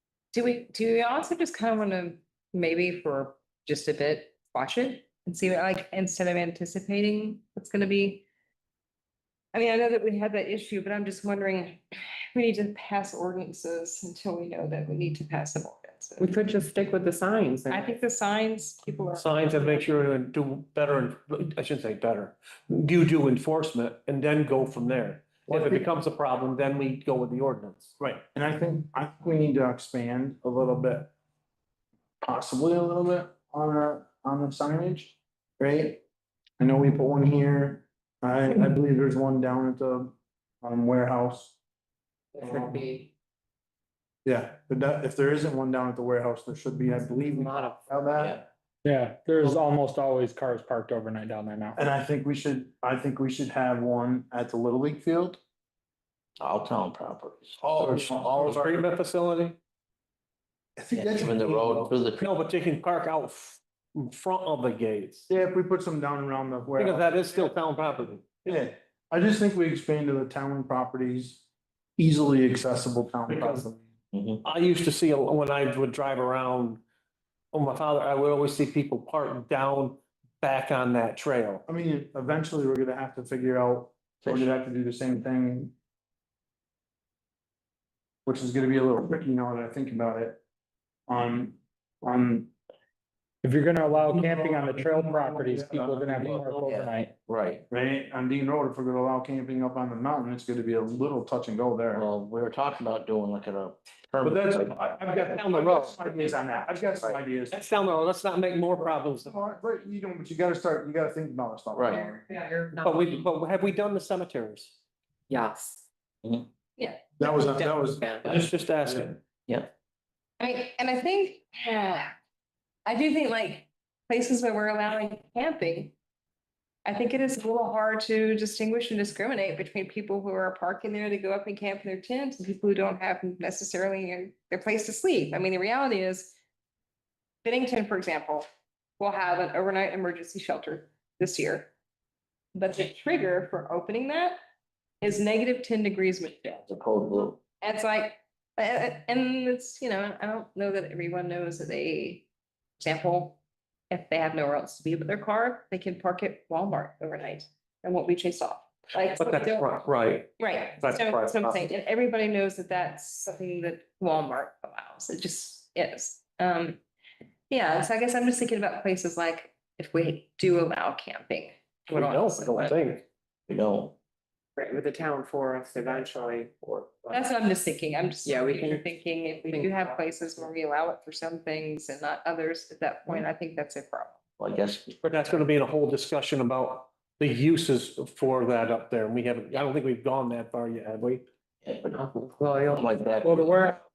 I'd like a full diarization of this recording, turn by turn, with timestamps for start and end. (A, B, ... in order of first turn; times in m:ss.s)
0:00.3-0:08.2 A
0:09.5-0:16.3 A
0:16.2-0:18.0 B
0:17.7-0:20.0 A
0:19.2-0:27.9 C
0:25.5-0:25.9 D
0:28.0-0:31.1 D
0:32.2-0:36.0 D
0:36.6-0:41.6 D
0:42.3-0:43.1 B
0:42.4-0:42.8 D
0:44.2-0:48.4 D
0:47.2-0:47.8 B
0:48.2-0:48.4 E
0:48.8-0:51.8 F
0:51.8-0:55.4 D
0:56.4-0:58.3 E
0:57.6-0:58.9 D
0:58.4-0:59.6 C
1:00.8-1:01.9 D
1:00.9-1:02.3 E
1:02.2-1:05.3 C
1:05.3-1:07.6 D
1:06.8-1:08.5 C
1:08.4-1:11.4 D
1:12.0-1:13.8 D
1:13.3-1:13.6 C
1:14.1-1:14.4 E
1:14.4-1:16.8 C
1:17.5-1:21.6 C
1:21.7-1:25.7 D
1:28.3-1:30.4 D
1:31.1-1:32.5 D
1:33.4-1:37.1 F
1:34.1-1:36.4 D
1:36.3-1:37.6 E
1:37.7-1:42.1 D
1:41.9-1:44.8 E
1:44.2-1:47.6 D
1:44.9-1:46.0 C
1:47.5-1:49.3 C
1:48.8-1:52.2 D
1:51.8-1:52.0 E
1:52.0-1:53.2 B
1:52.8-1:54.8 C
1:55.3-1:55.8 B
1:56.8-1:57.2 A
1:57.2-1:58.1 D
1:57.4-1:58.4 B
1:58.2-1:59.2 C
2:00.4-2:02.1 A
2:02.8-2:05.9 A
2:06.8-2:16.4 A
2:17.4-2:18.5 A
2:19.0-2:21.7 A
2:22.5-2:24.4 A
2:25.0-2:26.6 A
2:26.6-2:27.4 E
2:27.5-2:32.3 A
2:32.8-2:33.4 A
2:33.9-2:39.7 A
2:39.2-2:41.6 C
2:40.4-2:46.8 A
2:47.5-2:52.8 A
2:51.9-2:53.0 C
2:53.5-2:54.0 E
2:54.6-2:57.2 B
2:57.1-3:04.2 A
2:58.2-2:58.9 B
2:59.4-3:00.0 B
3:04.4-3:05.0 E
3:05.0-3:11.2 C
3:11.6-3:12.0 E
3:11.8-3:13.5 B
3:12.7-3:13.7 E
3:13.4-3:13.8 F